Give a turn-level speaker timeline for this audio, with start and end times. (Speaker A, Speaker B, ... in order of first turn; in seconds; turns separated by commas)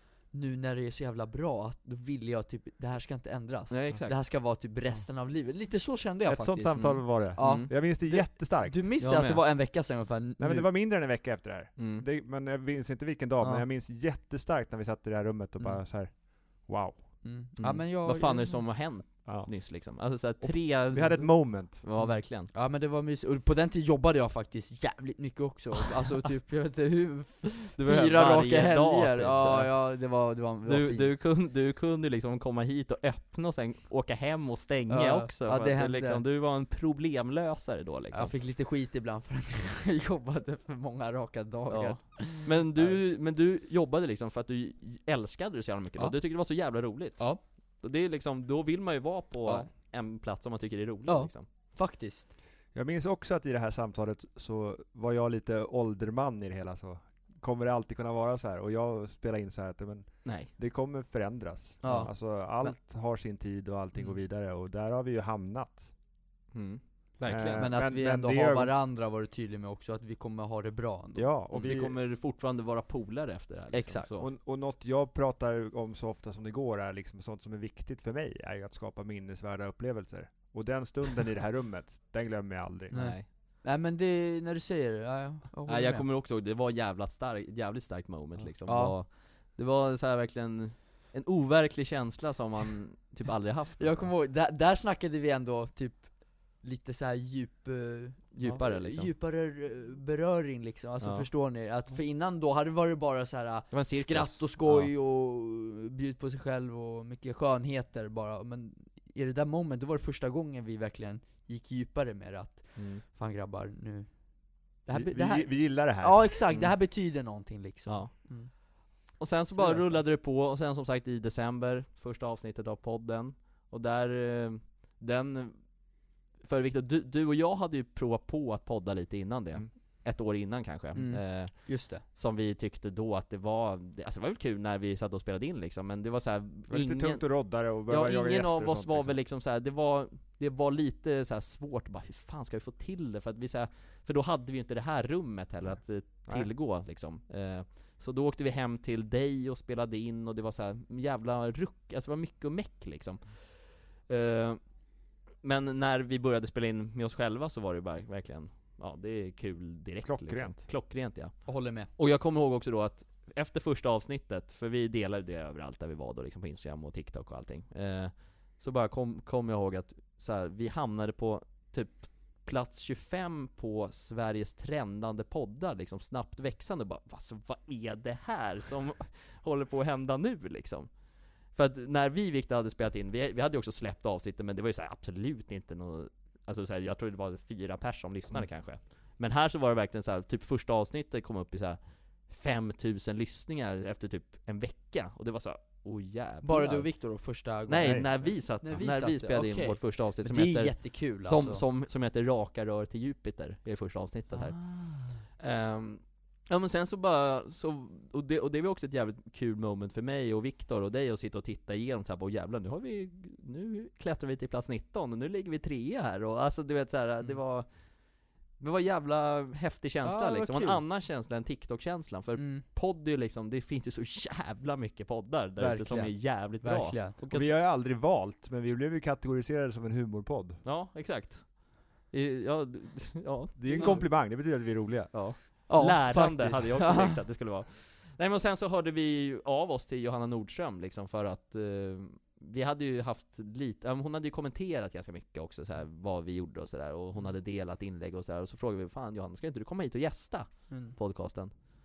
Speaker A: 0.3-10.7, Speaker B: 3.7-4.2, Speaker C: 6.3-8.8, Speaker B: 6.8-7.7, Speaker B: 9.0-9.4, Speaker C: 10.4-17.0, Speaker B: 11.8-12.0, Speaker A: 17.2-18.6, Speaker B: 17.6-22.5, Speaker C: 19.2-19.5, Speaker C: 20.4-21.8, Speaker A: 22.0-31.1, Speaker B: 27.6-29.7, Speaker B: 30.6-38.3, Speaker A: 34.9-36.2, Speaker A: 38.1-43.0, Speaker B: 41.7-47.3, Speaker B: 47.8-51.5, Speaker A: 51.1-52.3, Speaker C: 52.7-65.9, Speaker B: 60.2-60.5, Speaker A: 61.8-62.7, Speaker B: 66.5-67.7, Speaker C: 67.3-68.7, Speaker A: 67.5-71.3, Speaker C: 71.2-72.0, Speaker B: 71.5-74.3, Speaker A: 73.7-74.1, Speaker C: 74.2-82.9, Speaker B: 82.9-83.3, Speaker A: 82.9-86.1, Speaker B: 85.7-94.1, Speaker A: 88.6-88.9, Speaker A: 93.8-114.1, Speaker B: 98.3-99.1, Speaker B: 101.0-101.3, Speaker B: 103.7-104.9, Speaker B: 112.8-113.0, Speaker A: 114.8-118.5, Speaker C: 114.9-116.2, Speaker B: 116.5-116.8, Speaker B: 117.9-118.6, Speaker B: 119.2-125.6, Speaker A: 119.5-120.0, Speaker B: 126.4-137.3, Speaker A: 130.9-132.0, Speaker C: 136.7-139.2, Speaker B: 137.9-153.3, Speaker B: 154.1-154.6, Speaker B: 155.4-161.4, Speaker C: 160.0-160.6, Speaker A: 161.5-161.9, Speaker B: 162.0-180.9, Speaker B: 181.5-196.9, Speaker A: 196.4-201.6, Speaker B: 197.7-204.6, Speaker C: 197.8-198.1, Speaker A: 204.3-205.1, Speaker B: 205.4-217.7, Speaker B: 218.6-227.5, Speaker A: 220.0-220.8, Speaker A: 222.3-222.6, Speaker A: 225.6-227.2, Speaker C: 227.3-230.6, Speaker B: 230.6-234.0, Speaker C: 233.6-235.1, Speaker A: 233.8-234.0, Speaker B: 235.1-251.5, Speaker A: 235.7-237.2, Speaker A: 250.7-250.9